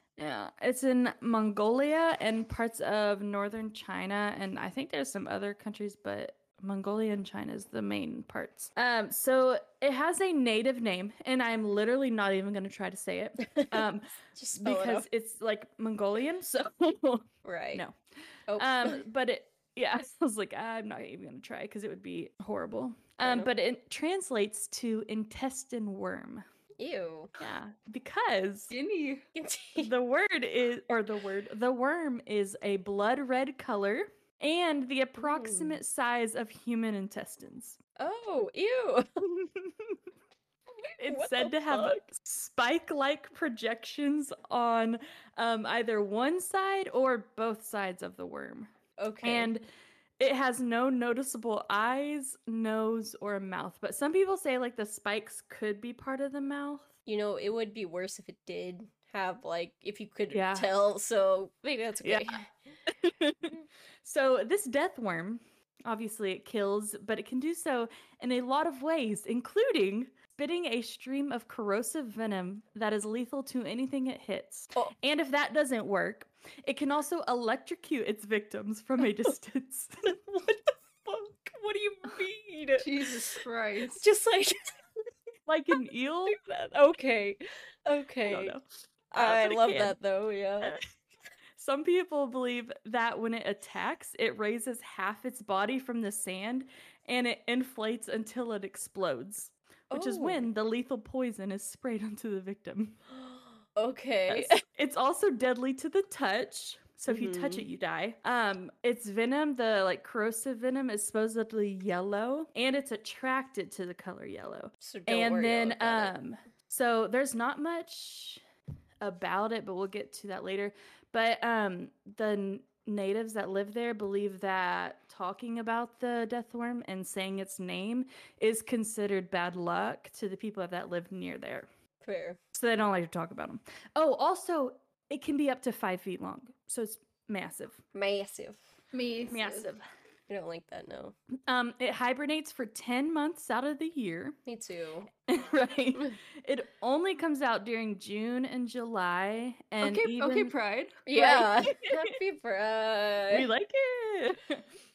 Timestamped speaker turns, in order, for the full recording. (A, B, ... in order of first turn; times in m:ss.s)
0:00.2-0:17.9 A
0:14.4-0:15.1 B
0:17.4-0:17.8 B
0:18.5-0:19.0 B
0:18.6-0:26.5 A
0:23.2-0:23.5 B
0:26.8-0:27.4 B
0:27.4-0:28.7 A
0:28.7-0:29.2 C
0:29.3-0:29.9 B
0:29.8-0:37.8 A
0:35.2-0:35.8 B
0:38.0-0:39.1 B
0:39.3-0:39.9 A
0:40.8-0:42.0 B
0:41.0-0:49.7 A
0:49.0-0:49.5 B
0:50.2-0:56.9 A
0:57.1-1:02.5 B
1:00.3-1:00.7 A
1:02.0-1:02.4 A
1:02.9-1:20.2 A
1:19.0-1:19.3 B
1:20.1-1:23.3 B
1:22.8-1:24.0 C
1:23.9-1:24.7 B
1:25.5-1:26.4 A
1:26.3-1:28.5 B
1:28.3-1:28.6 A
1:29.1-1:30.7 B
1:29.2-1:30.0 A
1:31.6-1:43.0 A
1:39.9-1:40.5 B
1:43.1-1:44.6 B
1:44.3-1:58.4 A
1:47.1-1:47.6 B
1:54.8-1:56.1 B
1:59.0-2:11.7 A
2:12.0-2:12.4 B
2:12.5-2:17.8 A
2:17.9-2:18.7 B
2:18.9-2:19.6 C
2:19.3-2:19.8 A
2:20.3-2:21.2 B
2:21.5-2:24.4 A
2:24.5-2:25.1 B
2:25.3-2:30.5 A
2:29.8-2:31.1 C
2:31.1-2:33.5 B
2:31.2-2:32.2 A
2:33.3-2:34.6 A